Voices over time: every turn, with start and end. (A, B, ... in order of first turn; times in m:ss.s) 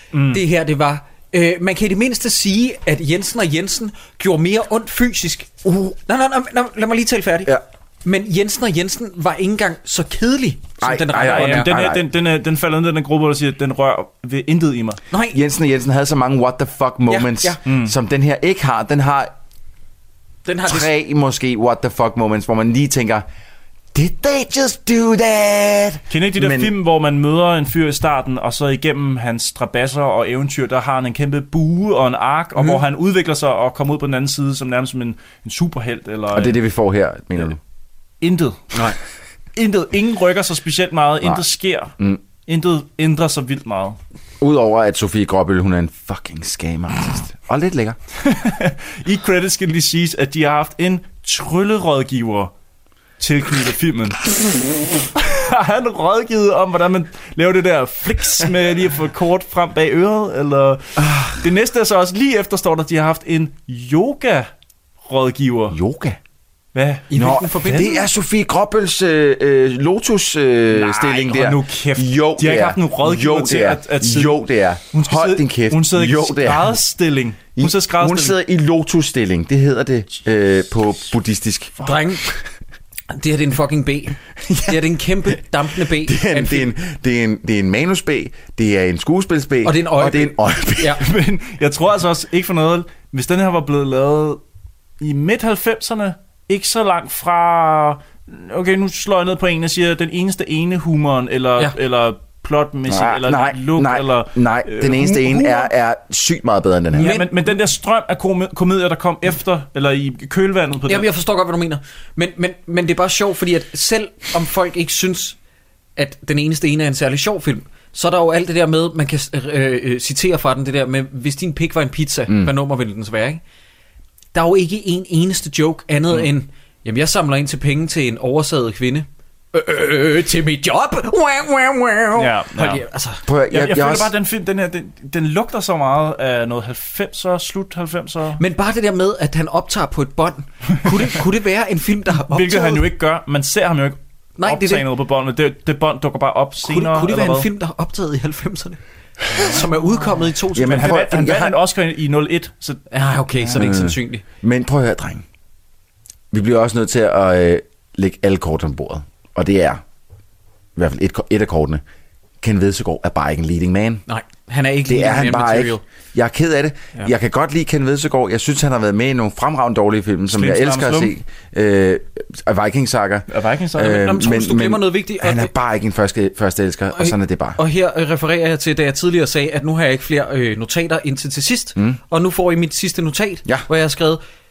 0:00.1-0:00.4 A
0:00.3-0:11.7 B
0:10.8-0:12.0 C
0:11.2-0:15.0 A
0:15.1-0:15.4 B
0:15.3-0:19.3 C
0:17.1-0:17.6 B
0:17.7-0:17.9 A
0:20.4-0:20.9 B
0:20.6-0:23.2 C
0:23.9-0:26.7 C
0:26.1-0:36.6 A
0:36.3-0:37.6 C
0:38.2-0:38.8 A
0:39.6-0:41.9 A
0:42.5-0:44.0 A
0:44.4-0:48.0 C
0:48.2-0:52.5 A
0:53.2-0:54.3 A
0:55.1-1:04.5 A
1:01.0-1:01.3 C
1:05.0-1:05.8 A
1:05.7-1:06.2 C
1:06.7-1:07.1 A
1:07.1-1:08.0 B
1:07.1-1:16.8 C
1:07.6-1:07.9 A
1:10.7-1:18.4 A
1:17.6-1:21.8 C
1:21.8-1:22.2 B
1:23.1-1:26.7 B
1:24.4-1:24.8 C
1:25.8-1:31.0 C
1:29.6-1:31.0 B
1:31.0-1:34.4 A
1:35.0-1:45.4 A
1:42.9-1:47.1 C
1:46.9-1:47.5 B
1:47.0-1:51.1 A
1:50.9-1:55.4 B
1:56.0-2:03.4 B
2:02.3-2:02.5 C
2:04.3-2:13.2 B
2:12.2-2:12.8 A
2:13.3-2:14.1 C
2:13.5-2:18.4 A
2:18.4-2:22.8 B
2:22.3-2:27.5 A
2:24.4-2:24.8 B
2:26.6-2:28.8 B
2:29.3-2:31.0 B
2:30.5-2:31.6 C
2:30.7-2:32.8 A
2:32.9-2:34.2 B
2:33.5-2:35.2 C
2:36.3-2:39.8 C
2:40.8-2:41.8 C
2:42.4-2:44.0 C
2:44.1-2:45.8 B
2:44.9-2:57.6 C
2:50.3-2:51.1 A
2:53.3-2:54.1 A
2:53.8-2:55.5 B
2:56.9-3:04.2 B